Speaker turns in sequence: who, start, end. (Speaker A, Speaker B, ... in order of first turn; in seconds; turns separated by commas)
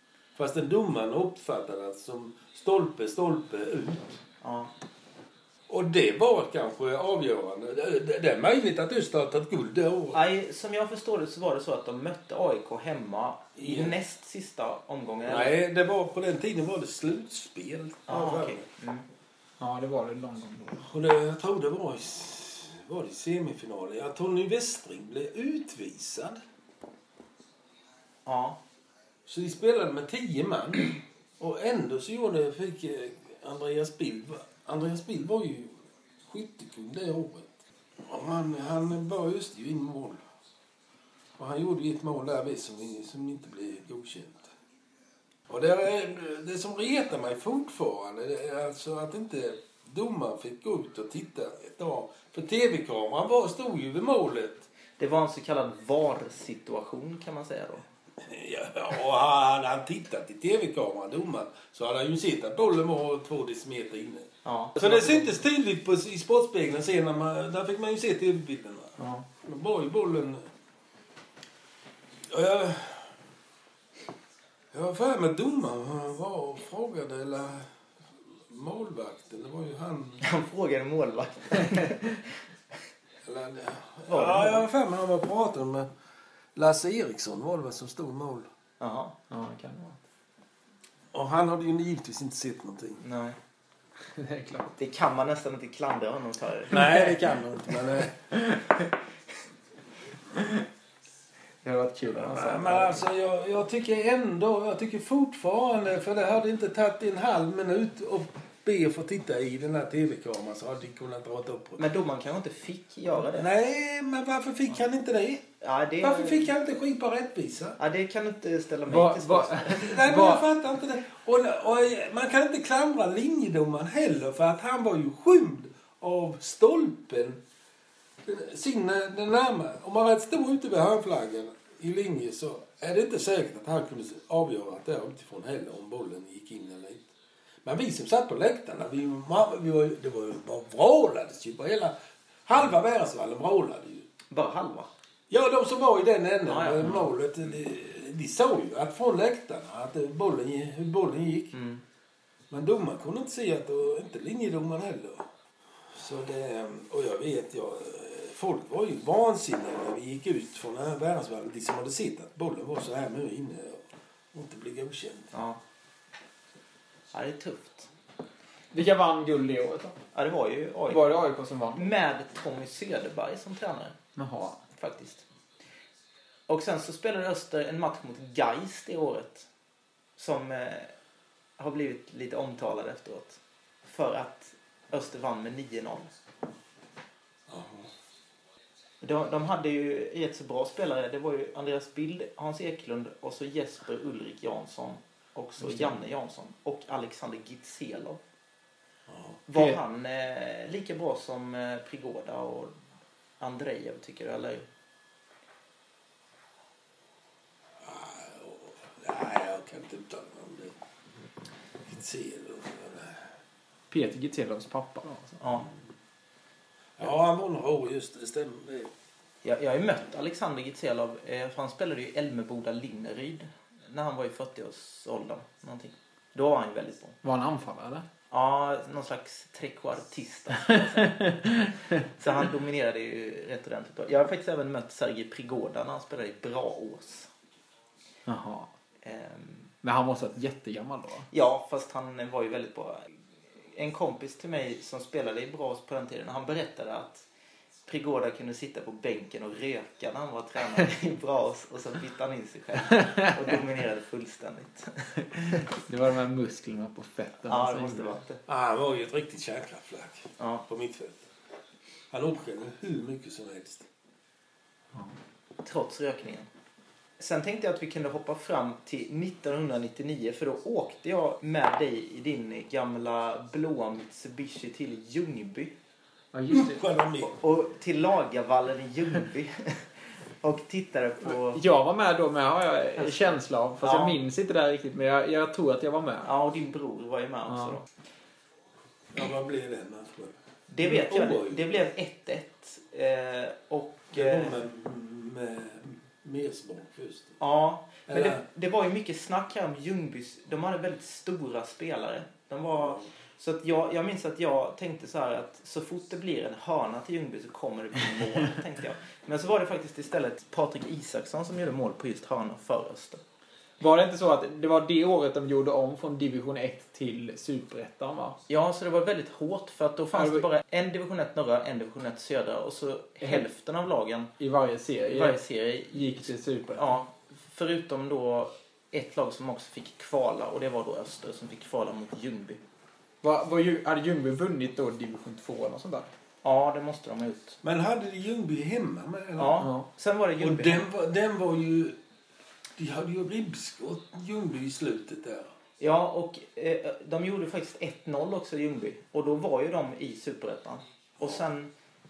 Speaker A: 0.3-4.2, Speaker B: 4.4-4.7, Speaker A: 5.7-10.2, Speaker B: 10.1-15.6, Speaker A: 13.6-13.9, Speaker A: 15.3-18.7, Speaker B: 18.1-19.1, Speaker C: 19.6-20.9, Speaker A: 20.8-26.4, Speaker B: 28.3-28.6, Speaker A: 29.3-40.2, Speaker A: 41.4-44.5, Speaker A: 45.5-54.7, Speaker B: 55.0-57.8, Speaker A: 58.2-70.5, Speaker B: 64.5-65.2, Speaker C: 69.0-69.2, Speaker A: 72.3-73.2, Speaker A: 74.7-77.7, Speaker A: 78.5-80.3, Speaker B: 80.2-82.3, Speaker A: 83.2-85.9, Speaker B: 84.1-84.7, Speaker A: 86.5-88.5, Speaker B: 88.8-89.2, Speaker C: 89.3-90.0, Speaker A: 91.1-93.0, Speaker B: 93.0-93.4, Speaker C: 94.2-94.8, Speaker B: 94.8-96.8, Speaker A: 96.7-98.4, Speaker C: 96.7-97.0, Speaker C: 98.3-98.9, Speaker C: 100.3-100.6, Speaker C: 101.6-103.0, Speaker A: 102.2-111.8, Speaker B: 111.8-113.5, Speaker A: 113.3-115.5, Speaker B: 115.6-116.5, Speaker A: 116.0-117.8, Speaker B: 117.8-120.0, Speaker C: 118.9-120.5, Speaker A: 119.7-127.4, Speaker A: 128.2-137.1, Speaker A: 137.6-144.1, Speaker B: 144.3-144.9, Speaker A: 145.3-151.6, Speaker B: 146.5-147.0, Speaker B: 151.5-151.8, Speaker A: 152.5-155.3, Speaker A: 155.9-165.3, Speaker B: 165.3-165.6, Speaker B: 167.1-167.9, Speaker C: 168.7-170.0, Speaker B: 170.1-171.1, Speaker C: 170.9-171.9, Speaker B: 171.8-174.0, Speaker C: 174.2-174.6, Speaker B: 174.7-175.2, Speaker B: 176.5-179.5, Speaker B: 180.2-180.9, Speaker B: 181.6-186.1, Speaker A: 187.5-187.9, Speaker B: 189.0-198.2, Speaker C: 195.6-195.9, Speaker A: 199.1-199.4, Speaker B: 199.5-202.8, Speaker B: 203.4-204.7, Speaker A: 207.8-210.8, Speaker A: 211.8-213.3, Speaker C: 213.9-215.4, Speaker B: 215.4-215.7, Speaker A: 217.0-218.9, Speaker B: 219.4-227.2, Speaker C: 227.2-228.1, Speaker B: 228.3-237.3, Speaker C: 230.7-232.0, Speaker C: 238.3-238.7, Speaker B: 239.0-239.7, Speaker C: 239.8-241.3, Speaker B: 241.3-247.3, Speaker B: 247.9-255.7, Speaker C: 255.6-258.2, Speaker B: 257.5-258.4, Speaker A: 258.5-261.2, Speaker B: 260.4-260.6, Speaker A: 262.1-263.9, Speaker B: 265.6-266.5, Speaker B: 267.2-275.8, Speaker C: 276.3-276.8, Speaker A: 276.5-277.4, Speaker B: 277.4-281.6, Speaker C: 281.3-286.3, Speaker B: 283.0-284.2, Speaker B: 286.2-287.9, Speaker A: 289.1-291.8, Speaker B: 290.7-294.6, Speaker A: 294.1-297.4, Speaker B: 297.4-313.2, Speaker A: 298.1-298.4, Speaker A: 302.8-303.1, Speaker C: 313.8-318.4, Speaker B: 318.5-324.3, Speaker C: 320.1-320.5, Speaker C: 324.4-326.9, Speaker B: 325.1-332.6, Speaker C: 333.2-336.1, Speaker B: 336.4-337.6, Speaker A: 337.6-339.7, Speaker B: 339.4-340.9, Speaker C: 339.6-339.9, Speaker A: 340.4-342.0, Speaker A: 342.8-345.5, Speaker B: 345.8-351.7